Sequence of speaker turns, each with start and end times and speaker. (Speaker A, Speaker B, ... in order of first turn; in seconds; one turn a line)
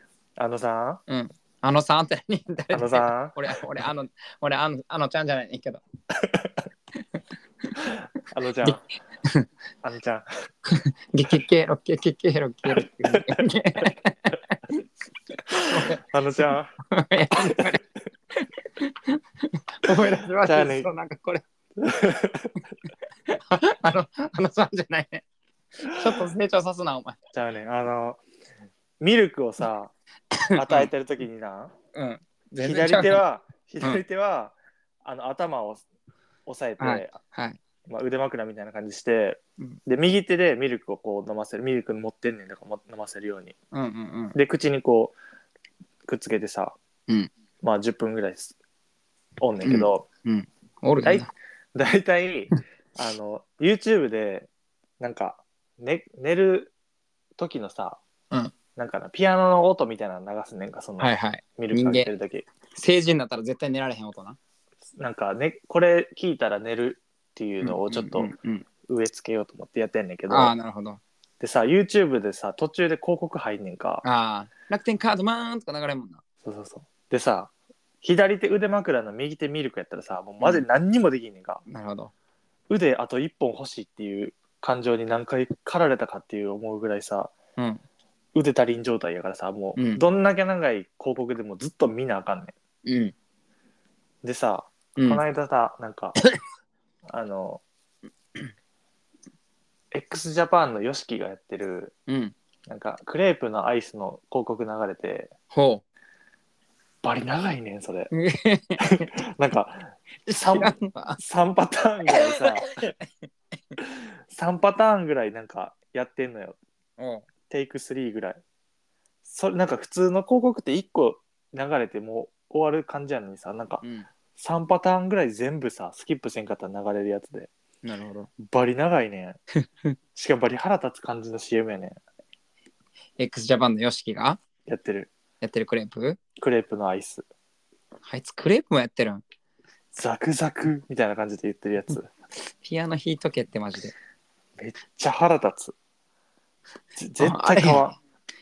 Speaker A: 0.4-1.0
Speaker B: 1.1-5.8
Speaker A: 2.7-3.5
Speaker A: 6.2-6.6
Speaker A: 7.8-8.8
Speaker B: 8.6-9.5
Speaker A: 9.8-10.3
Speaker B: 10.7-14.8
Speaker A: 12.7-13.4
Speaker A: 15.5-16.8
Speaker B: 15.7-16.0
Speaker B: 16.9-17.8
Speaker B: 18.4-21.4
Speaker A: 20.4-20.9
Speaker A: 21.8-22.6
Speaker B: 23.3-25.2
Speaker B: 25.8-27.2
Speaker A: 27.3-28.2
Speaker A: 29.0-29.9
Speaker B: 30.3-30.9
Speaker A: 30.6-31.7
Speaker B: 31.9-33.2
Speaker A: 32.6-35.8
Speaker A: 36.5-37.2
Speaker B: 36.8-37.6
Speaker A: 37.9-43.5
Speaker B: 43.7-44.4
Speaker A: 44.3-45.2
Speaker A: 46.1-46.8
Speaker A: 47.6-48.6
Speaker A: 49.4-50.1
Speaker B: 49.6-51.3
Speaker A: 51.0-54.5
Speaker A: 55.0-56.7
Speaker A: 57.4-58.0
Speaker A: 58.8-62.5
Speaker B: 61.0-62.1
Speaker B: 62.8-64.4
Speaker A: 65.0-68.3
Speaker B: 67.6-68.7
Speaker A: 68.9-70.6
Speaker B: 70.3-71.0
Speaker A: 71.4-74.0
Speaker B: 74.0-76.2
Speaker A: 76.4-77.5
Speaker A: 78.0-81.6
Speaker B: 80.4-80.7
Speaker B: 81.7-82.1
Speaker A: 82.7-87.3
Speaker B: 87.6-87.8
Speaker A: 88.3-92.5
Speaker B: 89.8-90.0
Speaker B: 92.8-93.1
Speaker A: 94.2-96.2
Speaker B: 95.0-95.2
Speaker A: 97.1-97.6
Speaker A: 99.9-101.9
Speaker B: 102.1-102.3
Speaker A: 102.7-105.3
Speaker B: 105.5-105.8
Speaker A: 107.0-108.1
Speaker B: 108.1-109.1
Speaker A: 108.8-112.8
Speaker B: 110.3-111.2
Speaker B: 112.1-113.0
Speaker A: 113.8-116.6
Speaker B: 117.0-117.3
Speaker A: 117.5-118.4
Speaker A: 119.2-123.8
Speaker B: 123.8-124.1
Speaker A: 124.3-127.5
Speaker B: 127.8-128.3
Speaker A: 128.4-129.4
Speaker A: 130.2-132.0
Speaker B: 133.2-134.4
Speaker A: 134.7-135.1
Speaker B: 135.4-136.2
Speaker A: 136.4-137.3
Speaker B: 138.1-139.2
Speaker A: 139.9-142.1
Speaker B: 142.6-143.9
Speaker A: 144.6-145.8
Speaker A: 147.0-148.0
Speaker B: 147.2-147.9